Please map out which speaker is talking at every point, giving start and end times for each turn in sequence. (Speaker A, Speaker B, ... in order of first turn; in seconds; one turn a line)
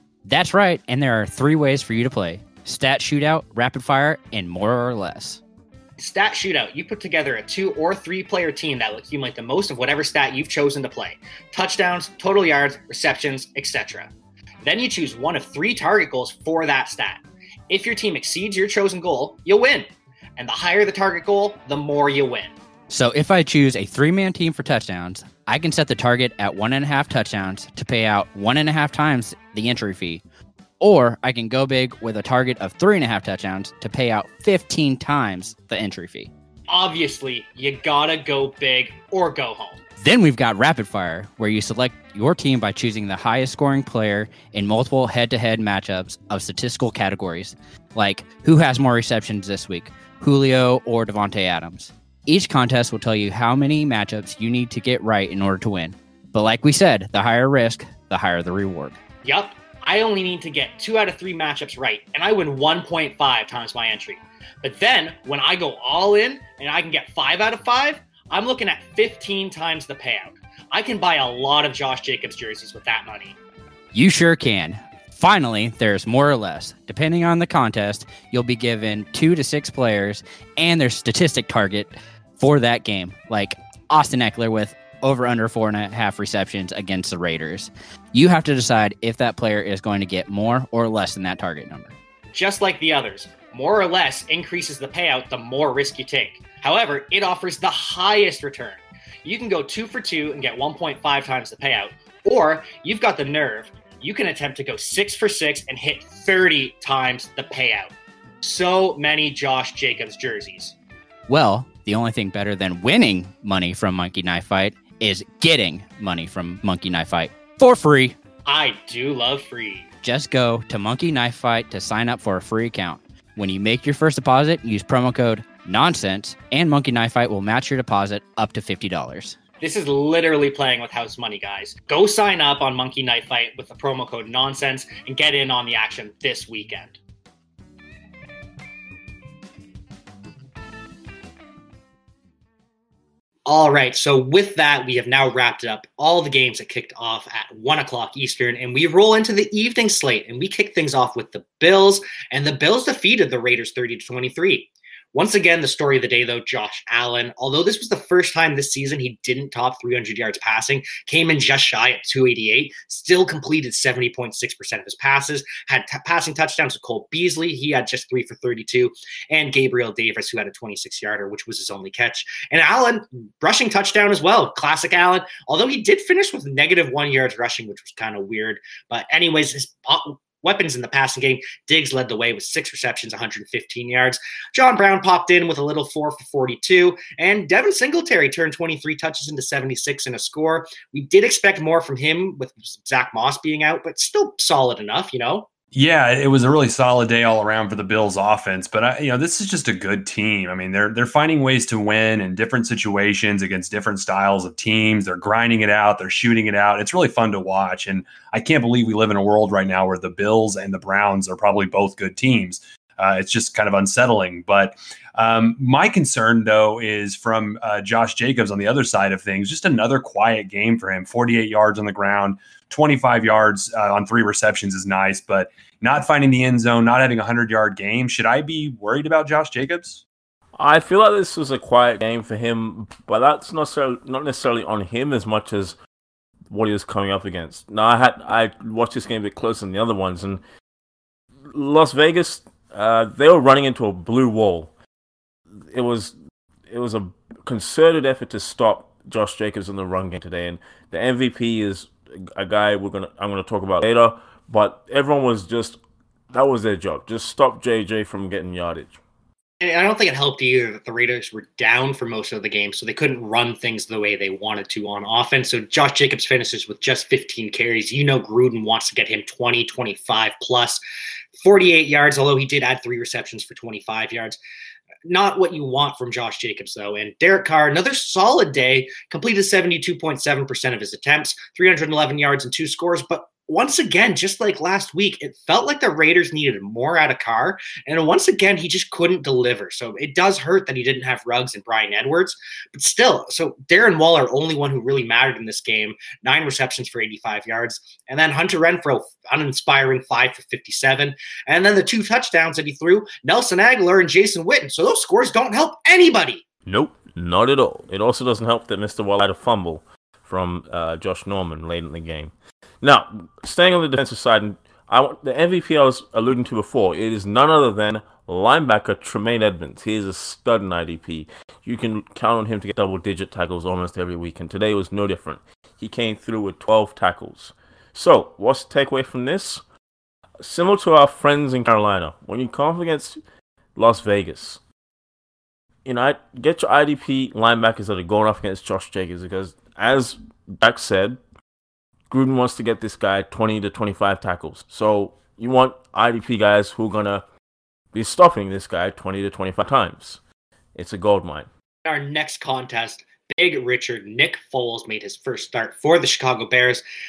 Speaker A: 0.2-5.4
Speaker B: 6.0-14.1
Speaker B: 14.6-22.5
Speaker A: 22.9-30.2
Speaker A: 30.8-36.3
Speaker B: 36.7-39.8
Speaker A: 40.0-59.0
Speaker B: 59.2-73.3
Speaker A: 73.9-91.9
Speaker B: 92.3-110.7
Speaker A: 111.3-118.2
Speaker B: 118.5-119.9
Speaker A: 120.0-129.4
Speaker B: 129.6-137.0
Speaker B: 143.4-195.5
Speaker C: 195.7-230.0
Speaker D: 230.6-235.8
Speaker D: 236.5-240.4
Speaker D: 241.5-244.7
Speaker D: 245.7-246.1
Speaker D: 246.7-255.8
Speaker D: 256.3-259.0
Speaker B: 259.6-270.8
Speaker B: 271.4-274.4
Speaker B: 275.1-306.4
Speaker D: 306.6-329.6
Speaker D: 330.4-333.2
Speaker D: 333.8-334.6
Speaker D: 335.8-341.2
Speaker D: 342.1-347.2
Speaker D: 347.9-350.2
Speaker D: 350.7-351.5
Speaker B: 351.8-356.8